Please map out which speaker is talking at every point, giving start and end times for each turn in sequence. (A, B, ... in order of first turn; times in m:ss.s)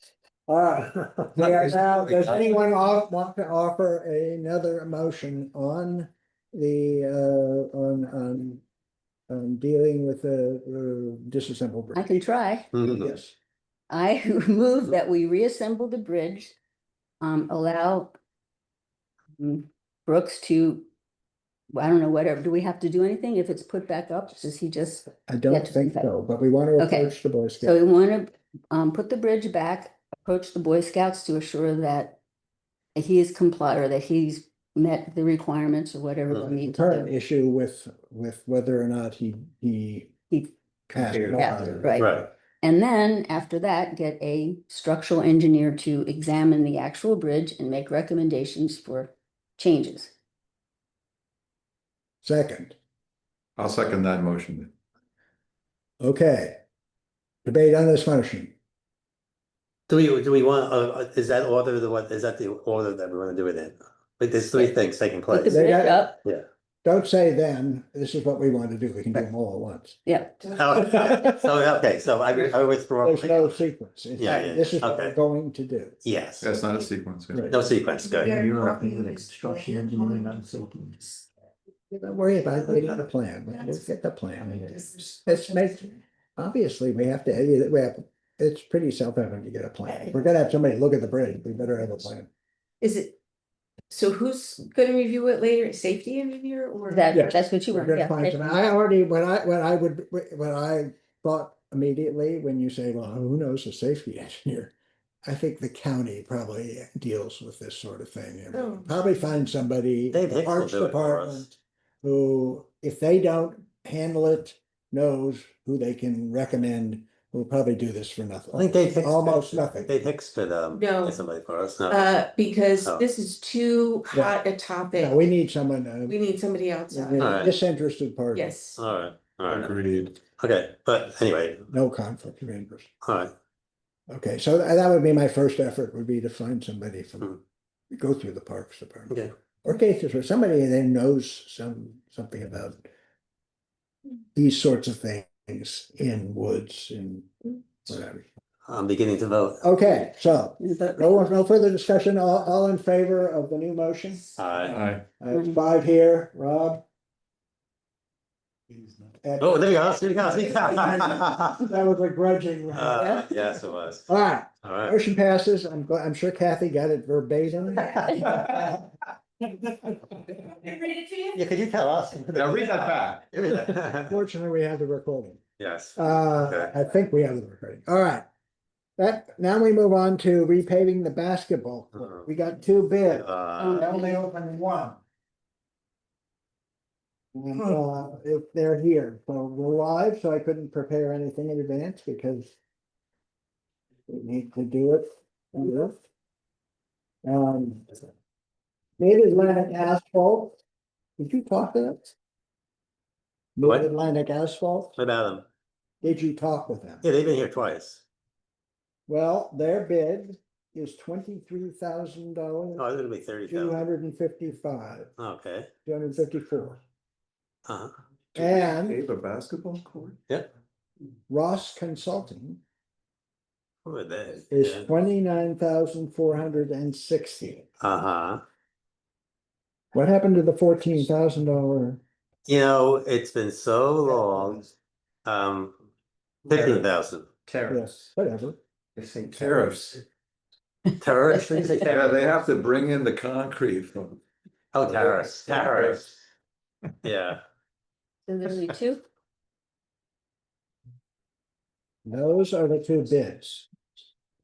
0:00.5-0:08.6 A
0:09.3-0:12.2 A
0:12.0-0:12.7 B
0:12.7-0:13.1 C
0:12.8-0:13.4 A
0:13.9-0:16.6 B
0:17.2-0:18.2 B
0:19.4-0:20.9 B
0:21.7-0:26.1 B
0:25.2-0:27.8 A
0:26.8-0:32.2 B
0:33.0-0:37.1 B
0:36.6-0:40.3 A
0:40.9-0:41.9 A
0:41.4-0:50.1 B
0:42.0-0:42.3 C
0:52.2-0:52.8 A
0:53.6-0:54.7 D
0:56.0-0:56.6 A
0:57.4-0:58.5 A
0:59.9-1:05.6 C
1:05.3-1:06.2 B
1:05.5-1:06.1 A
1:06.8-1:10.0 A
1:10.1-1:10.5 B
1:10.5-1:13.6 C
1:13.0-1:16.0 A
1:14.2-1:15.2 C
1:16.0-1:16.5 C
1:16.4-1:17.5 D
1:17.5-1:18.4 C
1:18.2-1:21.2 E
1:21.9-1:32.3 A
1:32.8-1:33.1 F
1:33.9-1:37.0 F
1:36.9-1:38.6 B
1:37.1-1:44.7 A
1:45.2-1:59.9 A
1:50.1-1:51.5 C
1:58.5-2:02.1 C
2:02.0-2:05.1 F
2:02.8-2:03.1 C
2:04.1-2:04.4 A
2:04.9-2:06.2 A
2:06.1-2:07.1 F
2:06.9-2:08.6 A
2:07.2-2:07.5 C
2:08.4-2:08.8 F
2:08.8-2:11.7 C
2:09.5-2:10.1 D
2:11.7-2:12.9 A
2:13.0-2:13.3 C
2:14.1-2:17.3 A
2:17.9-2:22.9 A
2:24.4-2:27.3 A
2:27.8-2:28.2 A
2:28.7-2:29.6 C
2:29.6-2:34.3 A
2:30.6-2:31.4 B
2:34.4-2:34.9 C
2:34.6-2:35.0 D
2:35.1-2:36.8 A
2:35.3-2:35.6 B
2:39.2-2:43.1 A
2:39.4-2:41.6 C
2:42.7-2:44.1 C
2:44.1-2:48.7 A
2:44.6-2:45.0 C
2:50.8-2:54.1 C
2:52.3-2:53.2 D
2:54.1-2:55.4 A
2:55.6-2:56.7 C
2:56.0-2:58.2 A
2:59.0-3:05.0 A
3:02.0-3:02.2 C
3:03.1-3:03.8 C
3:03.6-3:04.2 B
3:07.4-3:12.6 A
3:14.1-3:16.0 A
3:17.2-3:17.9 A
3:19.0-3:20.6 A
3:21.2-3:22.2 A
3:23.6-3:25.0 A
3:25.0-3:25.4 C
3:26.0-3:27.1 A
3:27.0-3:28.0 C
3:29.1-3:32.8 A
3:32.8-3:33.9 C
3:33.5-3:35.1 A
3:35.2-3:35.7 C
3:35.8-3:36.8 A
3:37.7-3:37.9 C
3:38.4-3:40.2 D
3:38.4-3:39.0 A
3:41.3-3:42.6 A
3:43.8-3:44.9 C
3:44.5-3:47.7 A
3:47.8-3:48.4 C
3:49.9-3:52.0 A
3:52.5-3:54.7 C
3:55.3-3:55.8 C
3:56.5-3:57.3 C
3:56.5-3:56.9 D
3:57.5-3:57.9 D
3:57.7-3:58.6 A
3:59.0-3:59.8 E
3:59.4-4:00.0 D
4:01.0-4:02.2 C
4:01.8-4:04.2 D
4:04.7-4:06.1 C
4:04.9-4:06.2 D
4:07.0-4:07.4 C
4:08.3-4:09.0 B
4:12.1-4:13.7 A